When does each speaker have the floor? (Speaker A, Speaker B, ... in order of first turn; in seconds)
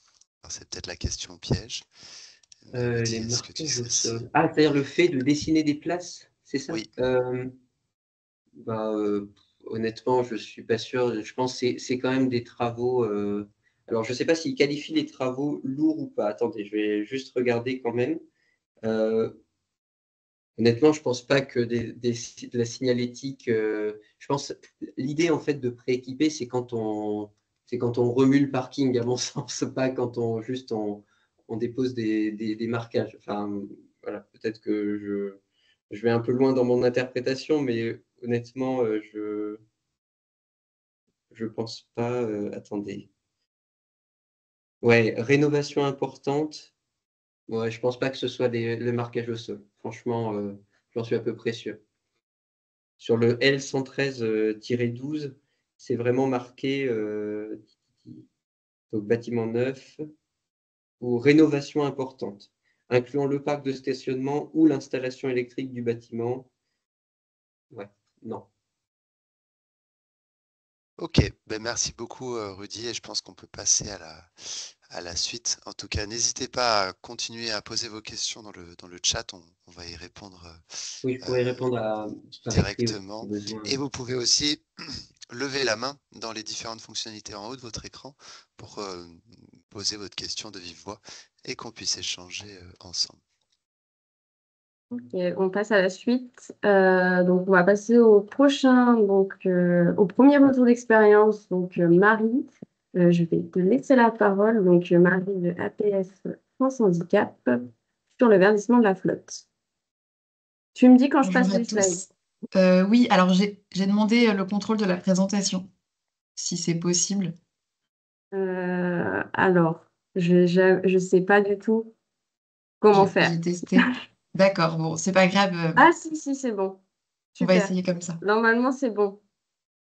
Speaker A: 0.4-1.9, 2.6-4.2, 71.0-80.6, 82.5-93.2
Speaker B: 2.7-7.5, 8.6-18.2, 18.9-19.3, 20.6-35.4, 35.9-39.6, 41.3-43.1, 44.8-46.7, 47.5-51.8, 53.0-58.2, 58.9-60.0, 61.0-66.5, 67.7-68.5, 81.0-83.8
Speaker C: 94.9-109.5, 110.8-112.0, 118.3-121.9, 122.8-123.9, 125.8-126.8, 127.3-129.2
Speaker D: 111.2-115.7, 116.4-117.3, 122.9-125.9, 127.4-128.2